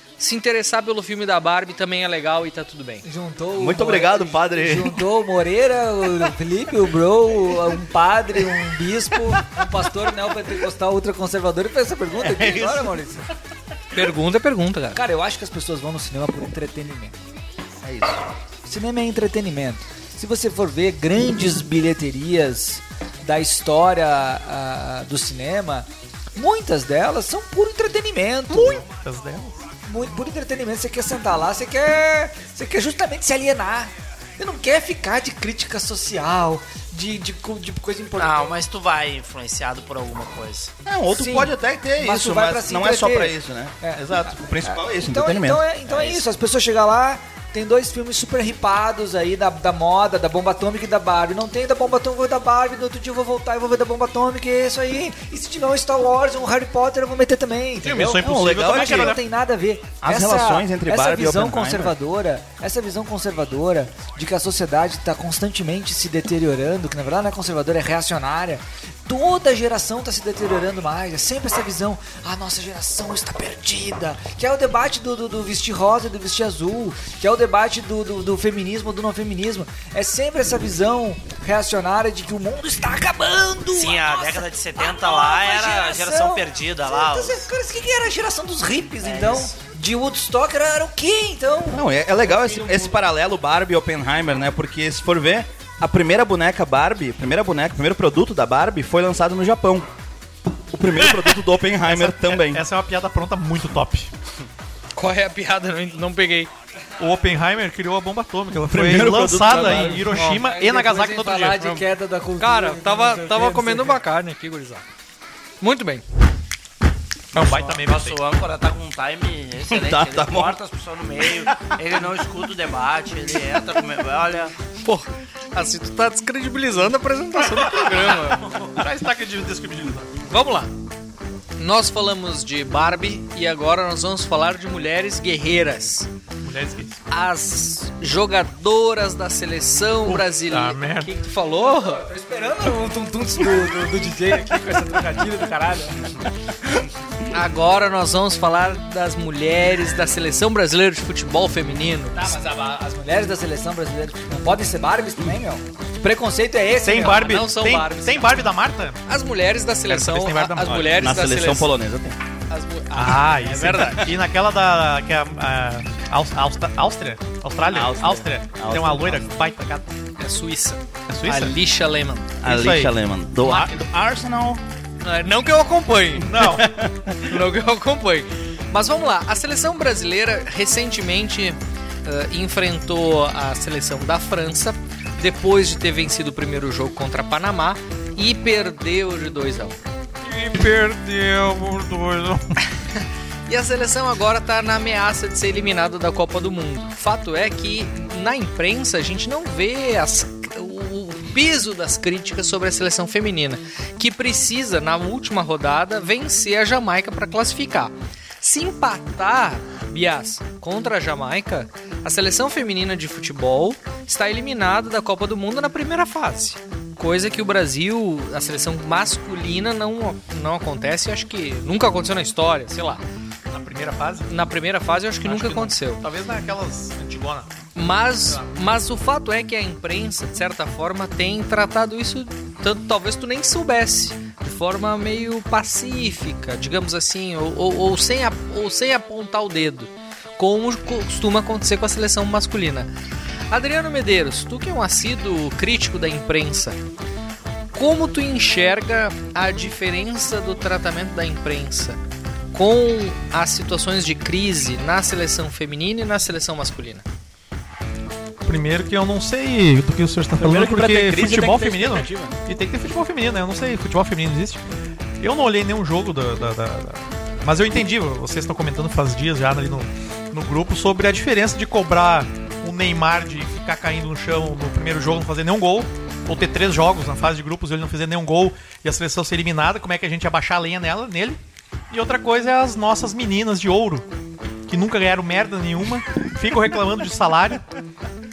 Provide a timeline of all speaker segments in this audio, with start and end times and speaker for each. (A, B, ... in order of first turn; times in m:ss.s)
0:00.2-0:03.0 A
0:03.0-0:13.3 B
0:03.6-0:05.0 C
0:12.2-0:12.9 C
0:13.9-0:15.0 A
0:14.9-0:17.2 B
0:17.8-0:18.2 C
0:18.6-0:28.8 B
0:28.5-0:29.6 D
0:29.9-0:38.5 B
0:38.2-0:40.7 E
0:40.9-0:46.0 C
0:41.1-1:31.8 B
0:57.8-0:59.2 D
0:58.2-0:59.2 C
1:00.0-1:01.9 C
1:23.7-1:27.5 E
1:29.0-1:29.5 E
1:31.7-1:39.9 C
1:32.4-1:32.9 B
1:40.7-1:42.6 C
1:41.0-1:44.1 D
1:45.0-1:46.5 A
1:47.0-1:51.8 D
1:48.7-1:50.2 C
1:49.5-1:54.0 B
1:52.4-1:54.8 A
1:55.6-1:56.0 A
1:57.3-1:58.2 D
1:57.3-2:04.5 E
1:59.7-2:00.6 C
2:04.8-2:08.4 A
2:07.6-2:08.1 D
2:08.4-2:08.7 E
2:08.7-2:10.1 D
2:10.3-2:10.7 A
2:11.6-2:16.1 A
2:16.5-2:17.0 D
2:17.1-2:22.0 A
2:20.0-2:21.1 D
2:21.7-2:26.2 B
2:27.3-2:32.3 A
2:32.1-2:37.3 B
2:36.8-2:39.0 D
2:37.0-2:38.5 A
2:39.1-2:41.7 A
2:39.9-2:41.1 D
2:40.7-2:42.2 C
2:42.5-2:44.0 A
2:42.9-2:49.9 D
2:47.7-2:49.3 C
2:50.2-2:52.3 A
2:51.1-2:51.6 D
2:52.4-2:54.6 C
2:52.4-2:53.7 D
2:55.0-2:56.3 A
2:56.2-2:56.7 D
2:56.4-2:56.9 C
2:57.2-3:09.8 A
3:10.2-3:12.5 D
3:13.5-3:43.0 A
3:43.5-3:44.3 D
3:44.3-3:46.0 A
3:45.2-3:47.5 D
3:47.8-4:02.9 A
4:03.5-4:06.8 A
4:07.7-4:12.0 A
4:12.5-4:17.0 A
4:18.4-4:24.6 D
4:20.4-4:22.4 C
4:25.2-4:44.0 D
4:44.7-4:47.6 D